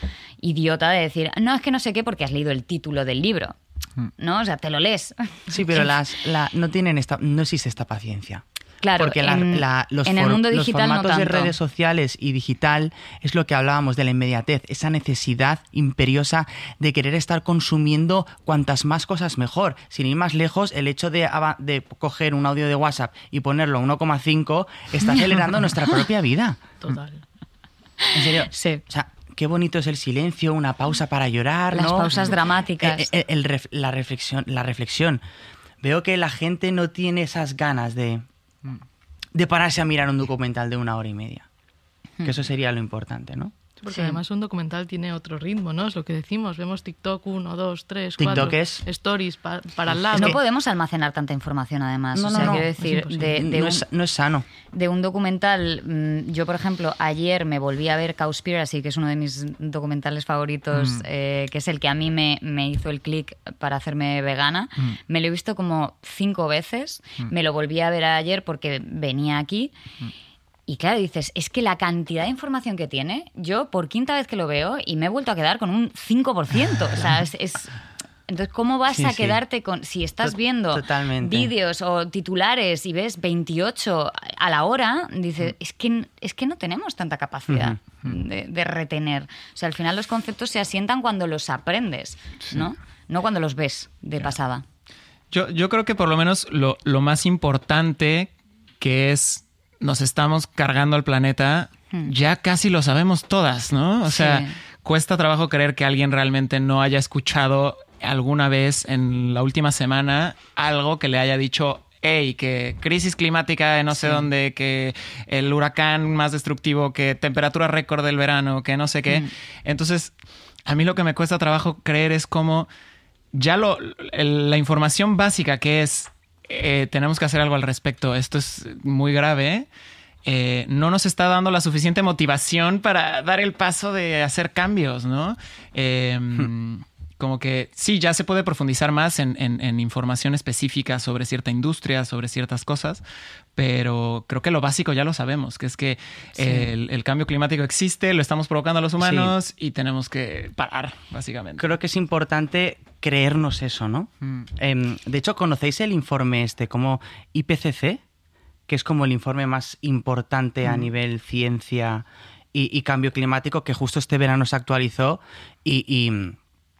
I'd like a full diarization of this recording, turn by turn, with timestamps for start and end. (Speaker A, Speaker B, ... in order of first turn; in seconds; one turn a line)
Speaker A: 0.4-3.6
Speaker A: 4.2-5.9
Speaker B: 5.5-8.4
Speaker A: 8.8-11.5
Speaker B: 9.0-26.6
Speaker C: 26.8-27.2
Speaker A: 28.0-28.8
Speaker B: 28.1-35.2
Speaker A: 31.7-33.1
Speaker B: 35.8-38.3
Speaker B: 39.3-41.5
Speaker B: 42.2-43.5
Speaker C: 43.8-50.4
Speaker A: 43.9-44.2
Speaker B: 48.2-48.8
Speaker A: 50.1-53.8
Speaker B: 50.1-50.4
Speaker B: 52.1-54.5
Speaker A: 54.7-69.7
Speaker A: 70.7-77.8
Speaker A: 78.3-94.7
Speaker B: 78.9-79.4
Speaker B: 80.2-81.5
Speaker B: 87.5-87.8
Speaker D: 95.3-120.1
Speaker A: 104.1-104.6
Speaker A: 114.0-114.2
Speaker D: 120.7-122.7
Speaker D: 123.3-129.7
Speaker D: 130.2-143.0
Speaker D: 143.6-151.7
Speaker A: 146.4-146.7
Speaker B: 149.0-149.3
Speaker B: 151.6-158.0
Speaker B: 158.7-166.4